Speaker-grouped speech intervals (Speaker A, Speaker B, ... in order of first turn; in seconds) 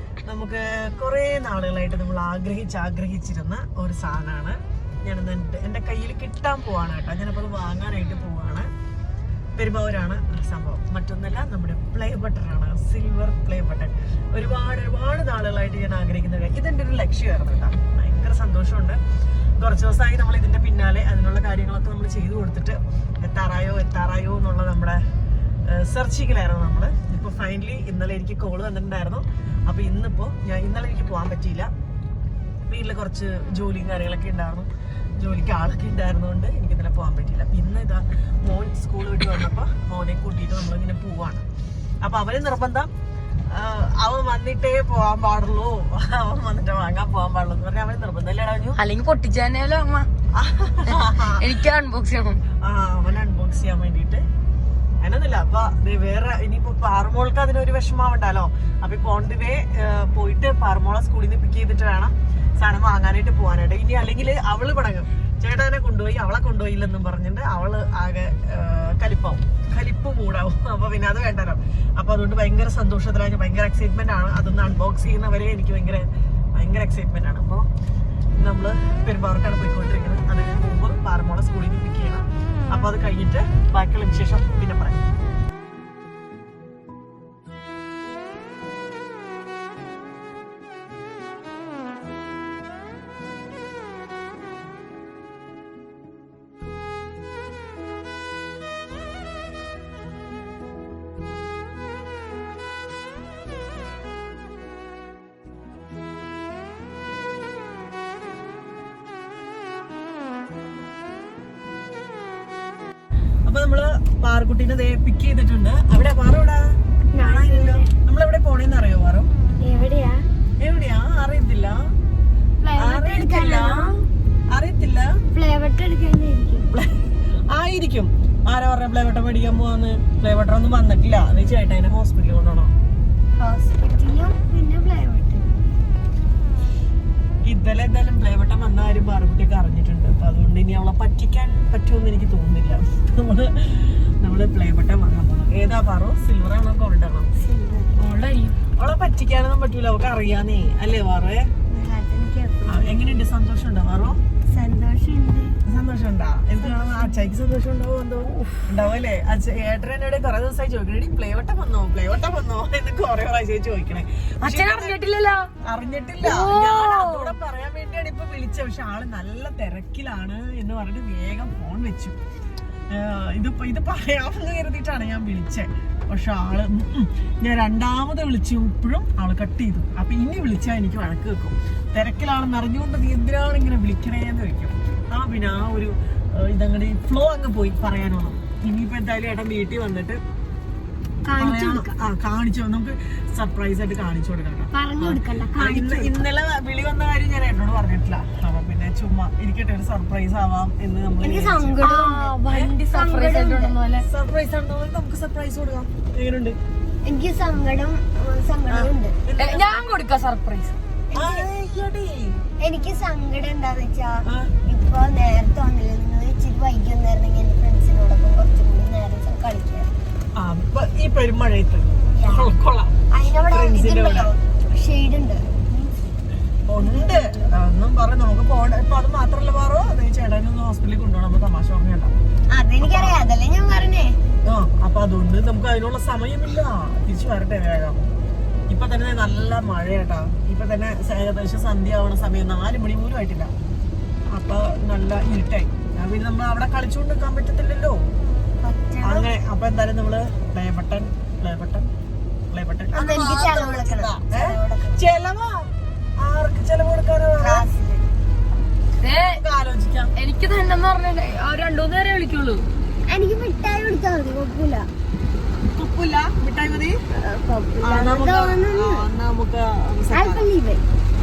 Speaker A: 0.2-8.7, 9.6-19.0, 19.6-25.0, 25.7-31.7, 32.7-41.5, 42.0-42.9, 43.5-48.8, 50.3-51.4, 52.6-54.2, 55.0-77.6, 78.4-85.0, 113.5-116.6, 117.2-119.3, 120.6-121.8, 122.8-123.9, 124.5-125.1, 126.7-132.7, 137.4-147.3, 148.8-151.5, 152.7-154.2, 155.7-164.9, 165.6-172.2, 172.9-190.2, 191.4-201.8, 204.0-206.6, 208.7-209.7, 211.1-212.4, 214.3-214.5, 220.4-222.9, 223.5-224.3, 226.7-232.1, 232.8-233.2, 234.4-238.1, 238.7-243.5, 244.3-248.0, 249.0-251.9, 252.5-255.6, 256.2-257.7, 259.1-260.1, 265.7-267.0, 267.8-270.5
Speaker B: 48.7-50.1, 50.9-52.4, 147.9-148.6, 164.4-165.5, 166.2-167.3, 201.8-204.0, 209.4-210.8, 259.0-259.4, 260.1-262.6
Speaker C: 117.1-117.9, 119.6-120.2, 122.6-123.9, 125.3-126.7, 133.4-135.4, 147.4-147.9, 151.7-153.0, 154.5-155.6, 191.2-191.9, 194.7-196.2, 201.2-203.8, 207.1-209.1, 211.1-211.5, 212.6-219.9, 222.1-222.5, 223.1-225.9, 226.8-227.5, 232.5-234.2, 248.6-249.3, 252.9-255.0, 257.4-258.0, 263.1-264.9, 267.3-269.0, 270.1-270.8